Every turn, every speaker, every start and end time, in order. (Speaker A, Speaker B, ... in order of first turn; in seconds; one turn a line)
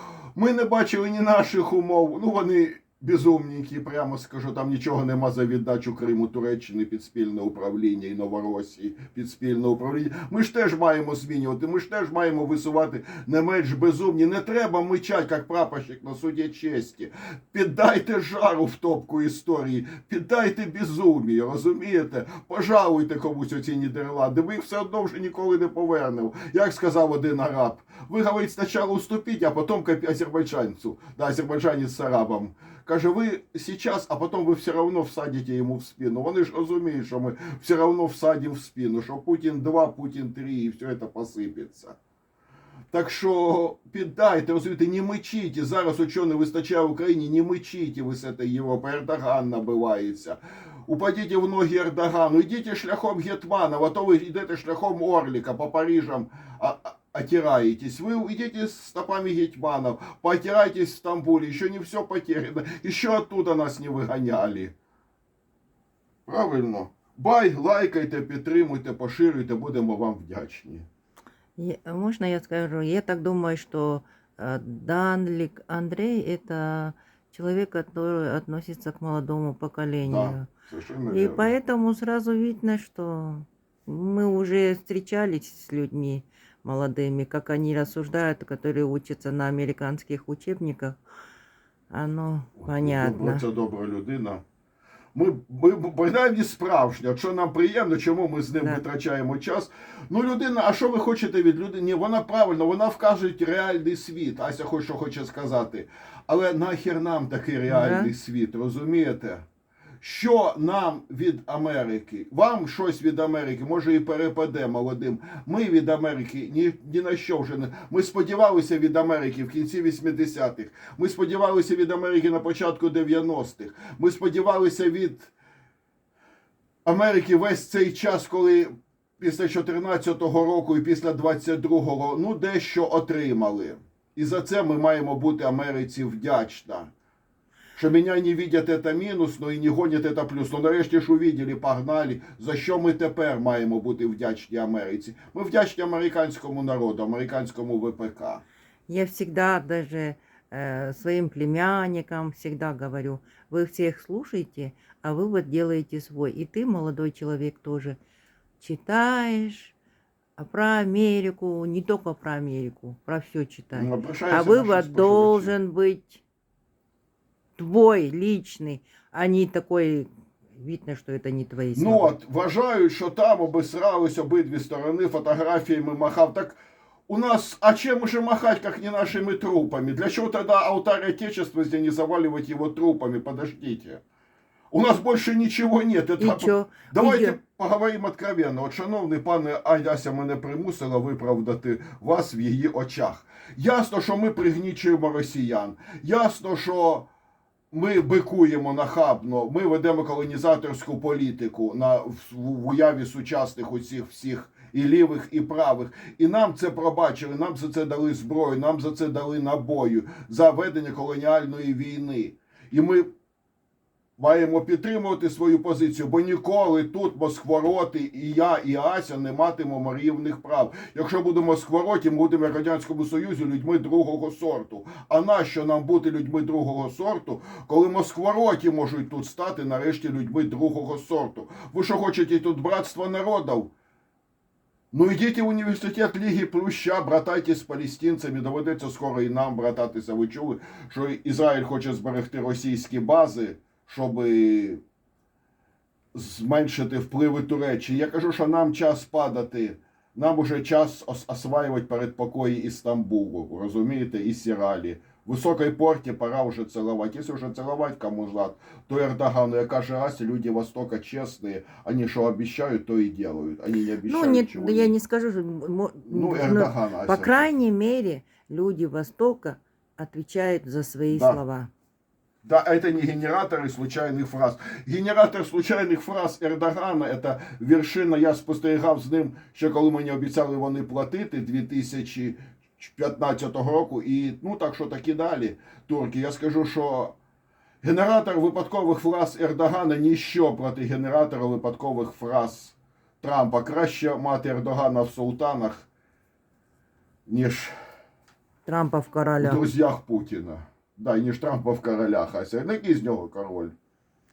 Speaker A: 0.3-42.0
Speaker A: 42.9-64.7
Speaker A: 66.3-70.9
Speaker B: 71.6-80.5
Speaker A: 80.1-81.5
Speaker B: 81.1-91.0
Speaker B: 91.9-93.4
Speaker A: 92.6-94.4
Speaker A: 95.2-109.4
Speaker B: 98.6-98.8
Speaker B: 107.7-108.1
Speaker A: 110.0-125.3
Speaker A: 126.8-128.7
Speaker A: 129.2-136.9
Speaker A: 137.8-148.4
Speaker B: 148.9-158.0
Speaker B: 158.6-159.8
Speaker B: 160.4-166.2
Speaker A: 163.7-165.5
Speaker B: 167.6-172.2
Speaker A: 171.8-184.0
Speaker A: 184.7-197.1
Speaker B: 186.2-187.4
Speaker A: 197.7-213.1
Speaker A: 214.2-233.7
Speaker A: 234.9-244.8
Speaker A: 246.1-264.9
Speaker B: 264.0-271.7
Speaker A: 266.1-267.5
Speaker A: 271.1-271.4
Speaker A: 272.4-287.2
Speaker A: 287.8-295.9
Speaker A: 297.3-297.7
Speaker B: 298.7-299.7
Speaker A: 299.4-303.7